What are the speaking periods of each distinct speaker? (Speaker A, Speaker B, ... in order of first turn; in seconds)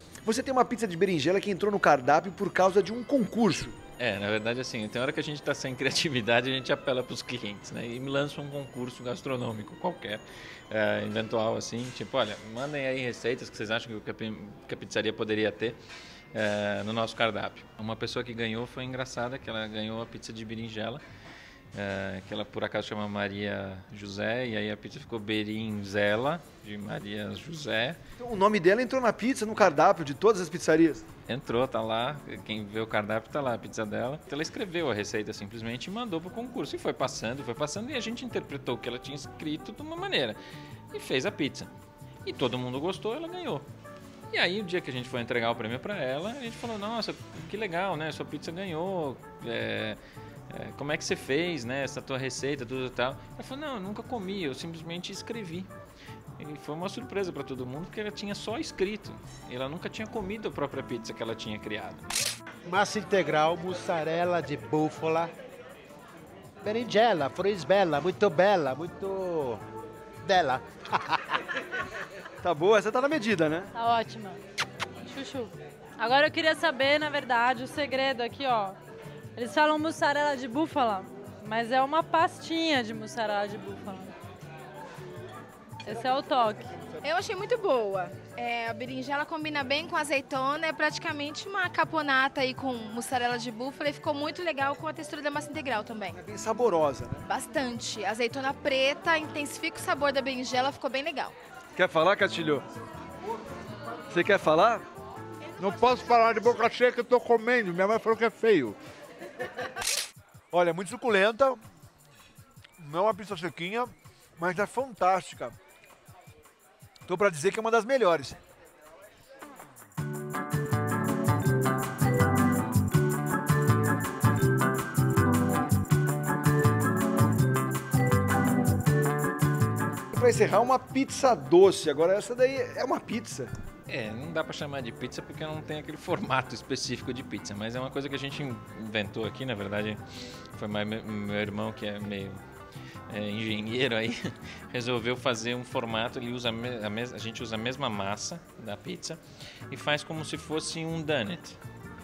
Speaker A: 0.2-3.8, 28.2-31.1, 72.4-73.7, 96.2-97.2, 101.8-102.6, 104.1-104.8, 110.5-111.6, 112.8-115.6, 117.1-118.4, 130.1-133.5
Speaker B: 4.0-15.8, 16.3-21.0, 21.7-28.0, 31.3-40.4, 40.9-41.7, 42.2-43.7, 44.3-55.7, 56.4-62.1, 133.9-140.0, 140.6-142.4, 143.1-144.2, 144.7-151.6
Speaker C: 62.7-65.3, 66.6-69.6, 70.2-71.3
Speaker D: 73.7-74.4, 75.1-78.8, 79.4-84.1, 85.8-86.7
Speaker E: 87.0-96.2, 97.3-101.3
Speaker F: 105.6-108.8